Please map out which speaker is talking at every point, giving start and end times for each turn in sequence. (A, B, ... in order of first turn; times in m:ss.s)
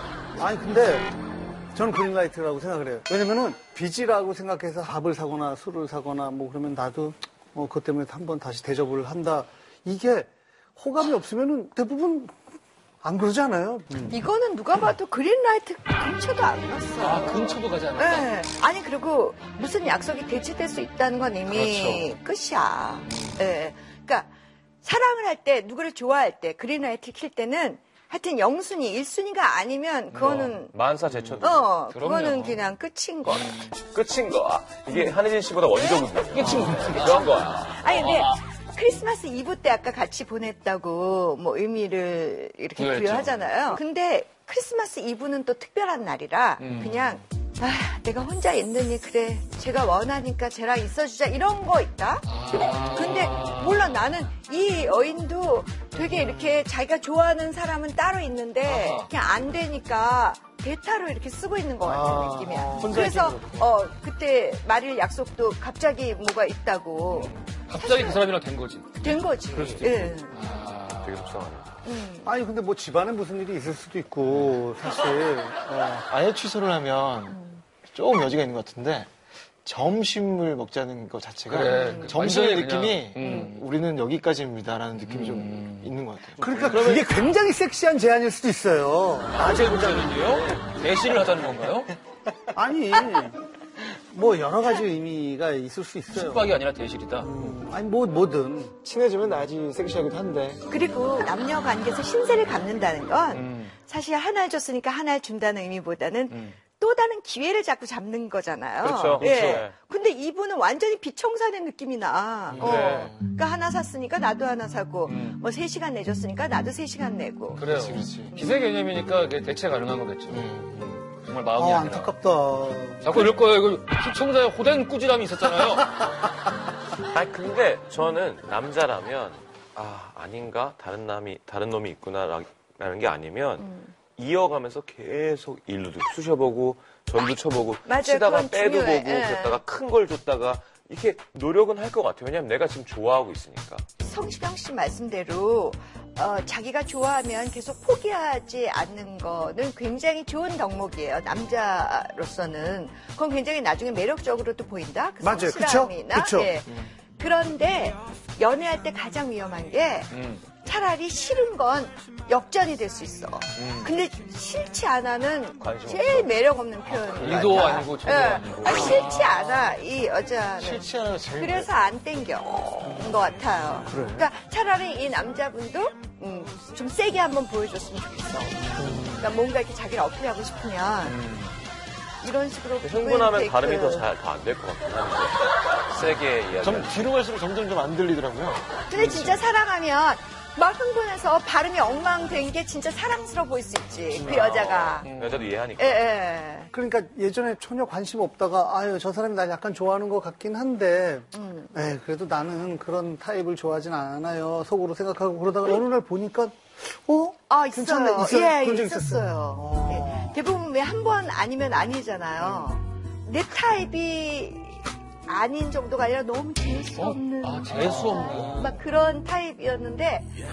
0:00.4-0:01.1 A
0:01.7-0:12.4 A
0:13.0-0:14.2 A
0:14.1-0:24.3 B
0:17.0-0:18.3 C
0:21.5-0:22.1 C
0:23.1-0:23.4 C
0:24.8-0:30.7 B
0:30.1-0:32.7 C
0:30.3-0:31.6 D
0:31.4-0:33.7 B
0:33.3-0:33.8 C
0:33.9-0:38.0 D
0:36.3-0:37.4 C
0:36.4-1:08.3 B
0:38.0-0:38.4 C
0:42.8-0:43.5 C
0:46.6-0:47.0 C
0:52.3-0:54.1 C
0:56.0-0:56.6 E
0:58.6-0:59.1 C
1:01.8-1:03.7 E
1:02.3-1:03.1 A
1:07.1-1:11.7 C
1:09.0-1:10.4 B
1:11.0-1:11.7 D
1:11.8-1:12.4 B
1:12.2-1:16.1 A
1:14.2-1:14.6 C
1:16.1-1:19.1 E
1:19.6-1:27.1 E
1:21.5-1:23.7 C
1:21.7-1:22.2 B
1:23.2-1:23.5 B
1:25.0-1:26.0 C
1:26.4-1:30.2 A
1:29.3-1:31.9 C
1:32.5-1:33.4 A
1:34.1-1:36.6 A
1:36.1-1:37.3 C
1:37.2-1:38.7 A
1:38.8-1:40.6 E
1:40.7-1:57.6 B
1:43.3-1:43.7 C
1:46.3-1:46.6 C
1:48.8-1:49.7 D
1:49.2-1:49.5 C
1:52.5-1:53.3 E
1:52.6-1:53.1 D
1:55.0-1:55.4 C
1:57.6-2:02.2 C
1:57.6-1:58.5 E
2:00.3-2:01.0 E
2:01.5-2:03.4 A
2:03.0-2:06.0 C
2:07.0-2:23.8 D
2:13.6-2:13.9 B
2:17.9-2:19.6 B
2:24.0-3:01.2 B
2:35.2-2:36.5 A
2:36.7-2:36.9 E
2:40.1-2:40.5 C
2:43.6-2:43.9 C
2:45.6-2:46.3 D
2:46.9-2:49.4 C
2:50.6-2:51.7 E
2:53.9-2:54.2 E
2:58.8-2:59.3 E
3:01.0-3:01.6 C
3:02.2-3:04.1 B
3:02.8-3:07.1 D
3:06.6-3:09.1 E
3:08.9-3:15.1 B
3:14.1-3:15.6 C
3:14.2-3:16.1 D
3:15.8-3:16.7 B
3:16.7-3:30.4 A
3:21.3-3:21.8 B
3:27.5-3:40.3 B
3:32.4-3:32.7 C
3:37.0-3:38.8 C